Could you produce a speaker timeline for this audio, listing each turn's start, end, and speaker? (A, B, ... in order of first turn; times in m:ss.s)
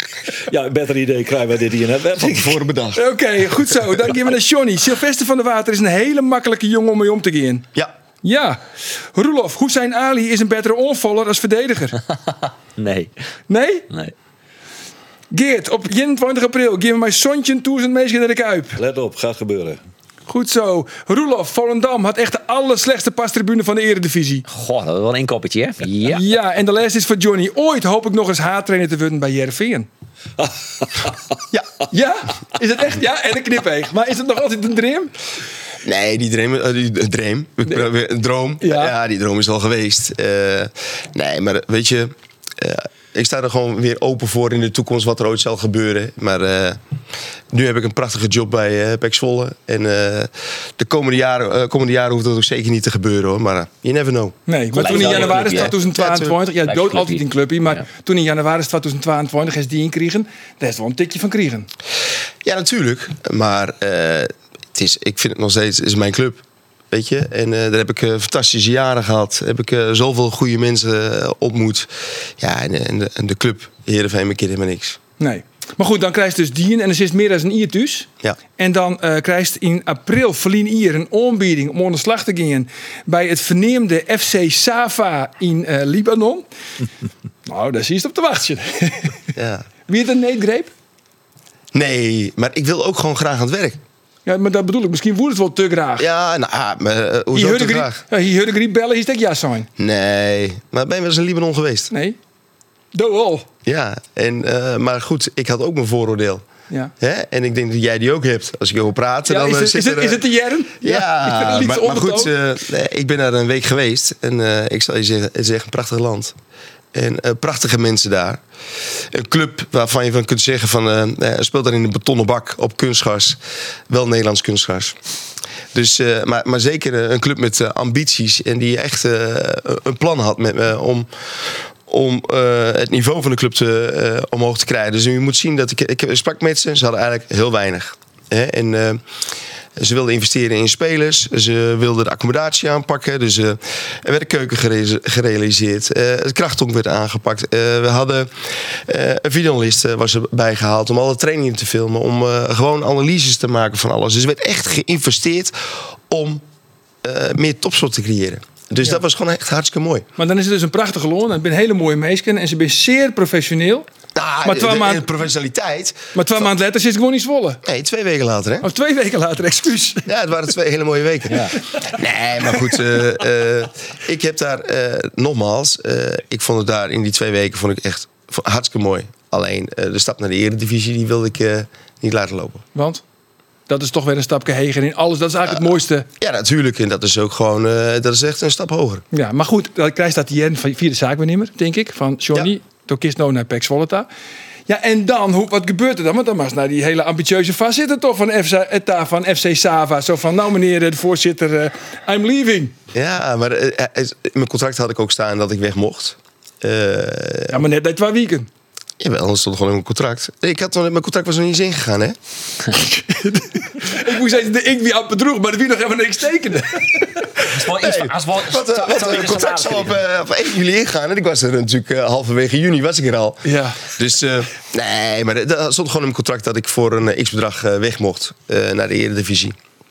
0:00.4-0:02.6 A
0:02.2-0:03.0 B
0:03.0-0:07.6 C
0:08.2-0:08.6 C
0:09.1-0:12.0 C
0:12.8-0:13.1 D
0:13.5-0:13.9 C
0:15.3-0:18.8 C
0:18.8-0:19.8 A
0:20.3-0:24.4 C
0:24.5-0:26.2 D
0:26.1-0:29.9 C
0:30.4-0:31.2 A
0:31.9-0:35.1 C
0:35.8-0:46.8 B
0:38.6-0:38.9 C
0:47.5-0:56.4 B
0:54.5-1:01.7 C
0:54.7-0:55.8 D
0:56.6-0:57.2 D
1:02.4-1:15.0 B
1:15.2-1:26.4 C
1:27.4-1:29.2 C
1:29.3-1:29.6 B
1:29.9-1:30.7 C
1:31.7-1:33.8 B
1:34.2-1:36.1 C
1:36.0-1:38.0 B
1:37.3-1:39.7 C
1:39.8-1:41.9 B
1:41.9-1:42.2 C
1:42.9-1:43.5 C
1:43.6-1:46.4 B
1:47.0-1:50.2 B
1:49.3-1:52.3 C
1:50.8-1:56.3 B
1:56.9-1:58.4 B
1:59.1-2:03.4 B
2:03.9-2:05.0 B
2:05.7-2:19.0 B
2:19.8-2:28.3 B
2:28.9-2:36.4 B
2:37.0-2:40.0 B
2:40.2-2:43.9 C
2:44.1-2:46.4 B
2:44.4-2:45.0 C
2:46.1-2:47.6 C
2:47.6-2:48.7 B
2:48.6-2:50.1 C
2:50.0-3:02.6 B
3:02.7-3:03.0 C
3:03.7-3:06.1 C
3:06.2-3:09.0 B
3:09.1-3:14.1 C
3:14.7-3:22.7 C
3:22.9-3:27.6 B
3:27.5-3:28.5 C
3:29.0-3:32.2 B
3:32.7-3:37.5 C
3:37.4-3:40.0 D
3:37.7-3:49.6 B
3:43.4-3:43.8 C